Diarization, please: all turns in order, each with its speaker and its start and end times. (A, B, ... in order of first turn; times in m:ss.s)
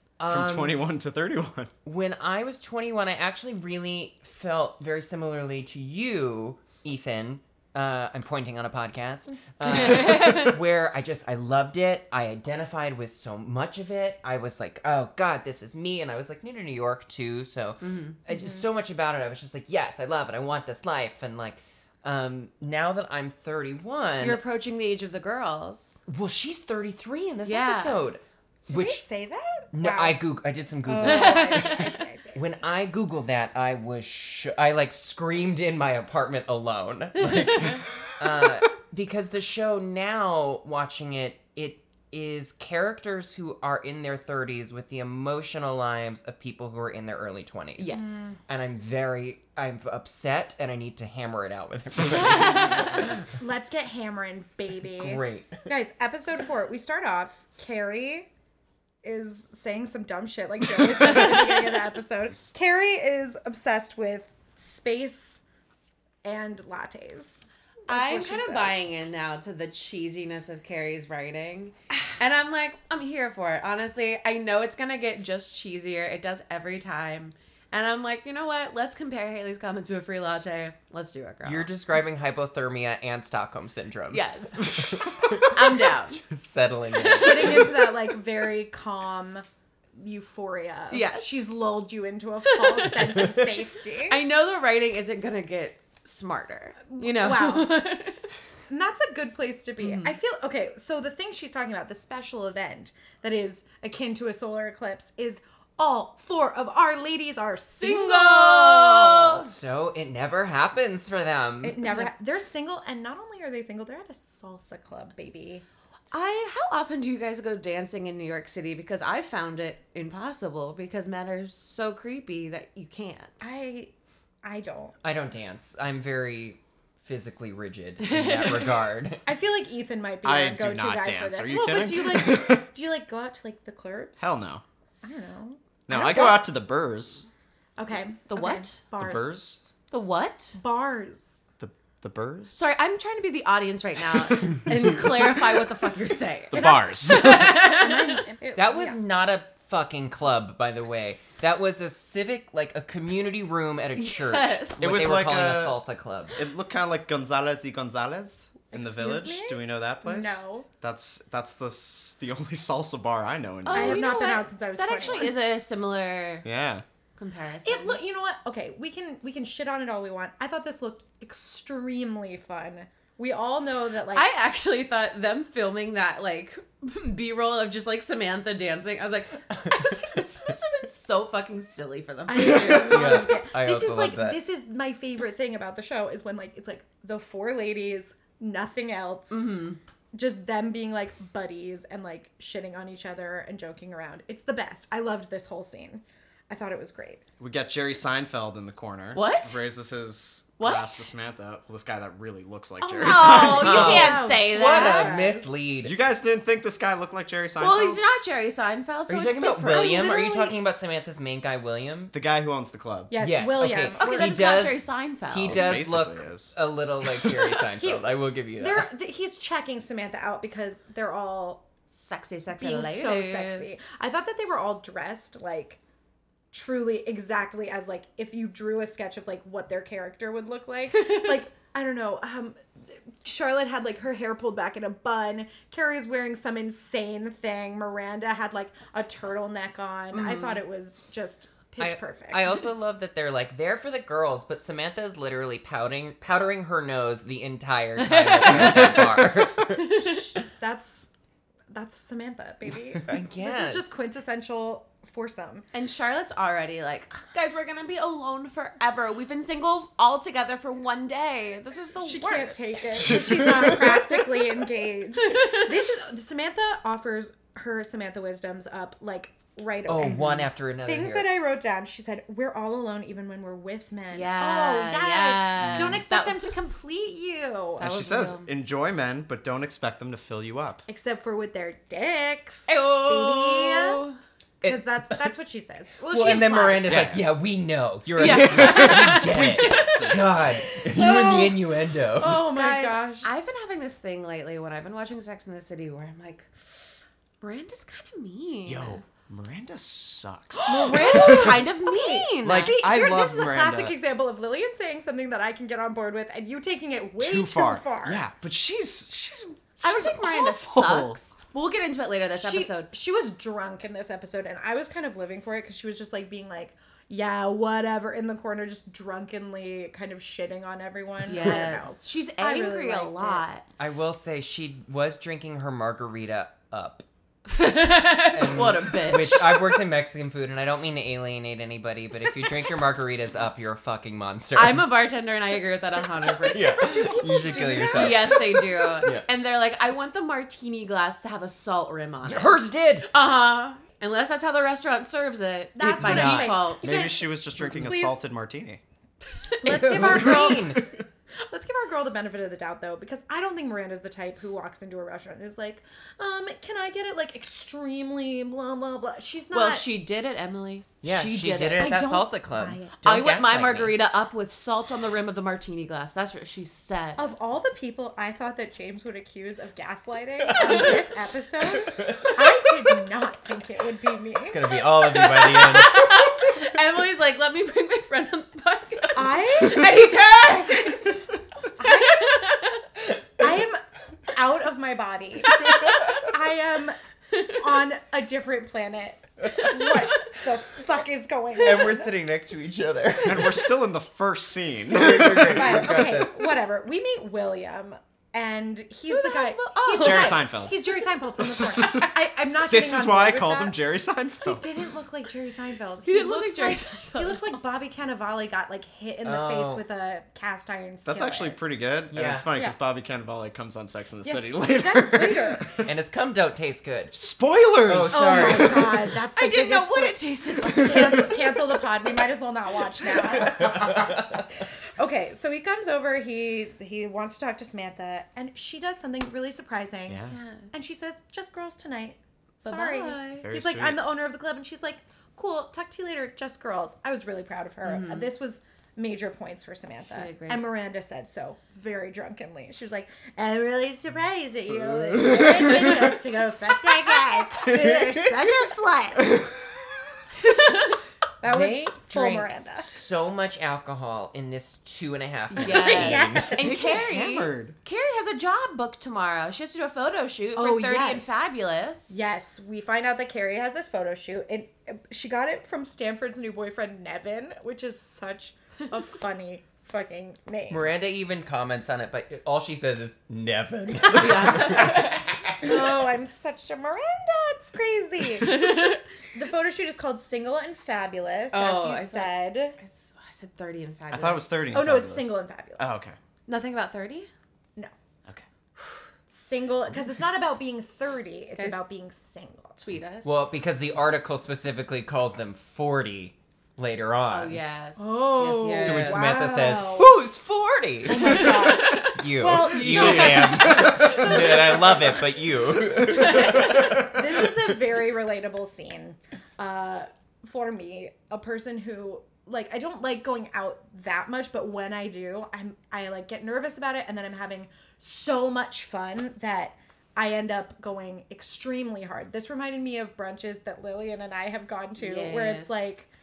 0:00.2-0:00.8 A
0:00.3-0:01.7 B
0:01.8-0:24.4 A
0:09.6-0:10.6 C
0:17.8-0:18.2 C
0:24.2-0:26.0 C
0:26.1-0:29.0 A
0:27.4-0:28.0 C
0:28.7-0:30.2 D
0:29.7-0:53.1 A
0:30.8-0:32.5 D
0:31.0-0:31.8 C
0:37.4-0:37.8 C
0:47.9-0:48.4 D
0:53.3-0:58.3 D
0:54.9-0:55.6 A
0:59.0-1:05.4 D
1:06.2-1:08.9 D
1:07.9-1:21.7 C
1:21.4-1:27.7 A
1:24.1-1:24.8 C
1:25.5-1:26.2 C
1:27.0-1:27.4 C
1:27.0-1:29.4 D
1:30.0-1:34.2 D
1:30.9-1:31.3 C
1:32.5-1:33.1 C
1:34.0-1:38.2 C
1:36.9-1:37.9 D
1:38.7-1:49.4 D
1:39.8-1:40.2 C
1:47.8-1:49.5 C
1:49.3-1:52.0 A
1:51.6-1:55.6 D
1:56.1-2:03.5 C
2:03.4-2:03.9 D
2:04.4-2:05.0 D
2:05.0-2:09.2 A
2:08.0-2:08.8 C
2:09.2-2:14.3 D
2:10.2-2:12.7 B
2:14.2-2:14.6 B
2:15.0-2:16.4 D
2:15.9-2:17.3 B
2:17.8-2:19.4 D
2:18.3-2:18.8 C
2:19.0-2:19.6 B
2:19.9-2:20.6 C
2:20.6-2:21.4 D
2:21.6-2:22.6 B
2:22.5-2:28.2 C
2:26.5-2:27.6 B
2:27.3-2:29.0 D
2:28.6-2:36.4 A
2:34.0-2:35.0 C
2:34.8-2:35.8 B
2:36.3-2:44.1 B
2:38.7-2:40.7 D
2:43.6-2:46.5 C
2:43.7-2:45.3 D
2:46.4-2:46.8 B
2:47.2-2:48.0 C
2:47.6-2:54.3 D
2:54.1-3:03.3 C
2:59.7-3:00.0 A
3:02.3-3:09.6 D
3:02.8-3:04.4 A
3:09.3-3:09.8 C
3:10.1-3:17.2 D
3:17.4-3:23.9 B
3:19.1-3:19.6 C
3:20.6-3:21.1 C
3:22.8-3:25.5 D
3:23.0-3:25.4 C
3:23.3-3:25.9 A
3:25.8-3:28.0 B
3:27.6-3:30.5 C
3:29.1-3:32.1 A
3:29.7-3:30.5 D
3:32.1-3:33.1 B
3:33.1-3:34.5 D
3:33.2-3:38.9 A
3:33.9-3:35.8 C
3:35.4-3:36.5 B
3:37.8-3:41.6 D
3:41.9-3:43.8 C
3:42.5-3:45.8 D
3:46.5-4:02.6 D
4:00.1-4:00.6 C
4:01.8-4:09.9 A
4:08.0-4:10.3 C
4:10.0-4:11.1 D
4:11.7-4:15.6 D
4:13.0-4:13.9 A
4:15.7-4:23.6 C
4:22.0-4:37.9 D
4:25.3-4:25.7 C
4:29.9-4:31.3 A
4:34.1-4:36.5 C
4:35.7-4:36.0 A
4:37.8-4:40.8 B
4:37.8-4:38.5 C
4:40.9-4:44.0 D
4:42.7-4:44.2 C
4:44.6-4:45.2 A
4:44.6-4:46.9 D
4:46.1-4:52.5 A
4:46.8-4:47.3 B
4:48.2-4:51.2 C
4:48.4-4:50.6 B
4:50.9-4:51.6 D
4:52.1-4:53.3 D
4:52.5-4:59.0 C
4:58.6-5:01.6 B
5:00.6-5:02.8 C
5:00.7-5:08.2 D
5:02.4-5:03.9 B
5:07.2-5:11.2 B
5:09.8-5:12.9 C
5:12.4-5:23.4 D
5:21.2-5:23.6 C
5:23.8-5:27.0 A
5:27.5-5:29.6 C
5:28.3-5:34.9 A
5:34.5-5:36.8 C
5:36.4-5:39.1 D
5:36.5-5:39.2 A
5:37.9-5:47.1 C
5:42.2-5:43.1 A
5:45.7-5:48.2 D
5:45.8-5:46.6 A
5:46.8-5:48.8 B
5:49.5-5:50.0 C
5:49.6-5:59.9 D
5:49.6-5:50.8 A
5:59.5-6:02.0 C
6:01.0-6:04.0 A
6:01.8-6:03.0 D
6:03.0-6:07.3 C
6:07.2-6:14.6 D
6:10.6-6:11.0 A
6:11.8-6:12.3 A
6:14.4-6:16.3 A
6:14.9-6:21.3 C
6:19.1-6:20.1 D
6:21.8-6:22.4 D
6:21.8-6:22.8 C
6:23.4-6:32.1 D
6:25.5-6:26.2 C
6:31.6-6:33.7 A
6:33.2-6:36.0 B
6:34.9-6:36.6 A
6:35.4-6:43.8 D
6:39.1-6:40.5 C
6:40.0-6:40.8 B
6:41.4-6:44.6 B
6:44.4-6:51.6 D
6:46.0-6:47.5 C
6:49.2-6:49.8 A
6:51.0-6:55.7 B
6:52.1-6:52.4 A
6:54.2-6:55.8 D
6:55.8-6:57.1 A
6:57.1-6:59.0 B
6:57.8-6:59.0 A
6:58.1-7:29.5 D
6:59.4-7:01.3 C
7:03.4-7:04.4 A
7:10.1-7:10.4 B
7:10.3-7:10.7 C
7:12.6-7:13.5 C
7:13.4-7:14.0 B
7:17.8-7:18.3 C
7:20.0-7:20.6 C
7:25.1-7:26.0 B
7:30.4-7:31.0 C
7:31.4-7:32.9 D
7:31.4-7:36.3 A
7:35.5-7:42.2 C
7:35.7-7:37.0 D
7:35.7-7:37.8 B
7:40.6-7:41.4 D
7:42.1-7:50.9 D
7:50.7-7:55.7 A
7:54.0-7:55.3 C
7:54.2-7:55.1 D
7:55.6-8:02.8 D
7:58.4-7:59.0 C
8:01.5-8:04.5 C
8:04.1-8:06.2 B
8:04.7-8:06.0 D
8:06.5-8:07.3 C
8:09.3-8:12.8 D
8:11.5-8:11.8 C
8:12.8-8:13.5 C
8:13.2-8:17.6 A
8:17.3-8:19.3 C
8:18.0-8:20.2 D
8:18.8-8:27.0 A
8:21.0-8:25.5 D
8:21.1-8:23.3 C
8:22.7-8:24.6 B
8:25.9-8:27.3 B
8:26.0-8:27.0 C
8:26.2-8:46.1 D
8:45.0-8:45.7 C